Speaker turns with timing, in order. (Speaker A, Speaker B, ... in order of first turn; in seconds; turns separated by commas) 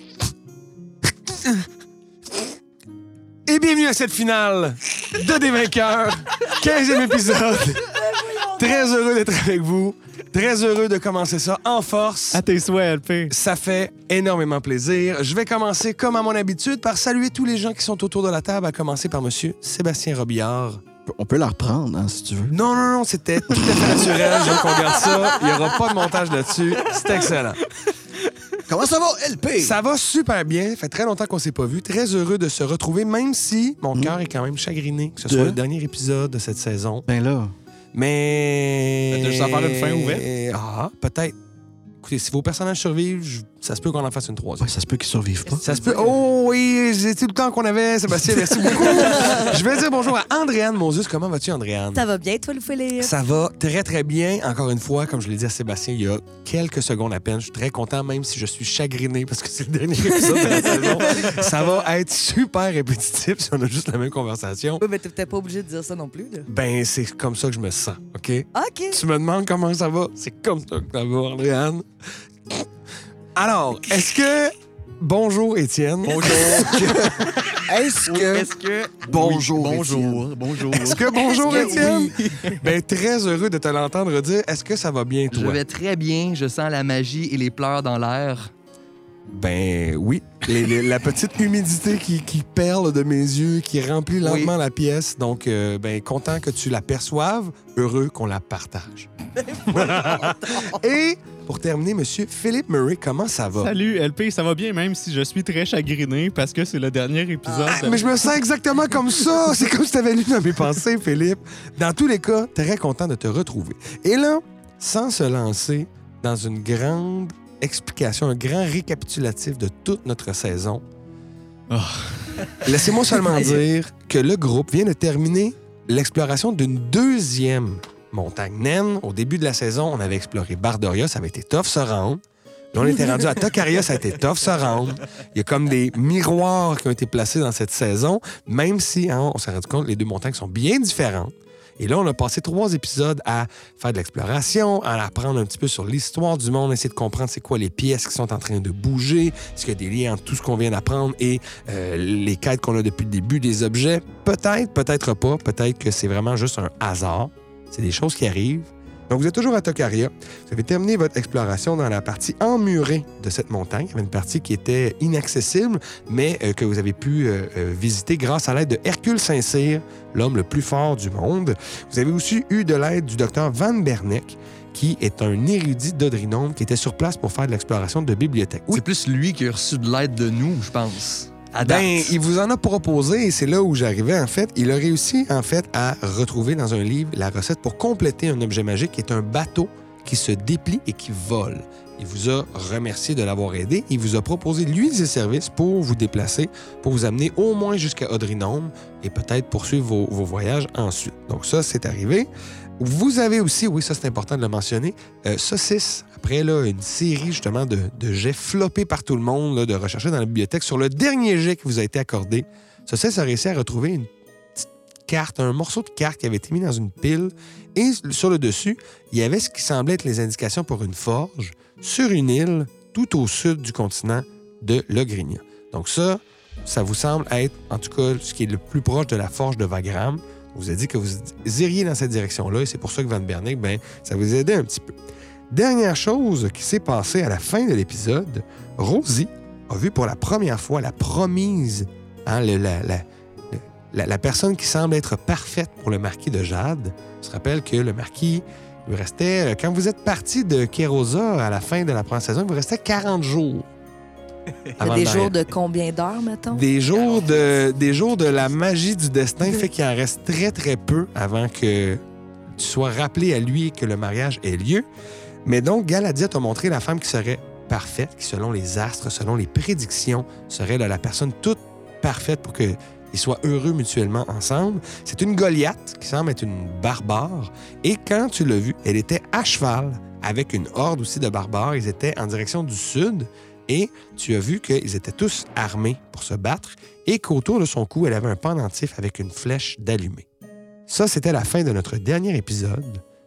Speaker A: 1.3-1.6, Speaker A: 3.5-7.9, Speaker B: 7.9-8.8, Speaker A: 8.5-12.4, Speaker C: 12.3-13.3, Speaker A: 13.3-20.8, Speaker D: 21.1-22.6, Speaker A: 22.5-27.6, Speaker D: 23.5-25.1, Speaker D: 28.6-29.8, Speaker A: 29.6-37.1, Speaker D: 35.3-35.6, Speaker D: 37.1-37.6, Speaker A: 37.9-41.4, Speaker C: 39.1-40.3, Speaker A: 42.0-44.8, Speaker D: 44.6-45.9, Speaker A: 45.6-52.0, Speaker B: 49.2-49.5, Speaker B: 51.9-53.1, Speaker A: 53.0-64.8, Speaker B: 60.1-61.0, Speaker B: 64.8-66.5, Speaker A: 66.5-71.9, Speaker B: 68.5-69.0, Speaker A: 73.3-77.3, Speaker D: 76.1-78.5, Speaker E: 76.2-76.9, Speaker E: 78.0-82.6, Speaker D: 79.1-80.9, Speaker A: 80.8-85.6, Speaker B: 81.1-82.2, Speaker E: 85.3-88.5, Speaker A: 89.3-99.1, Speaker E: 94.2-94.5, Speaker A: 99.7-103.7, Speaker C: 103.6-108.2, Speaker B: 107.5-108.0, Speaker A: 107.7-120.8, Speaker C: 121.7-122.5, Speaker A: 122.6-132.2, Speaker A: 132.7-178.8, Speaker E: 178.7-182.2, Speaker A: 181.6-202.3, Speaker A: 202.8-234.9, Speaker A: 235.5-253.7, Speaker A: 254.8-255.4, Speaker B: 254.8-256.6, Speaker A: 256.5-262.0, Speaker E: 256.9-258.2, Speaker A: 262.6-264.9, Speaker A: 265.4-290.3, Speaker A: 290.9-293.0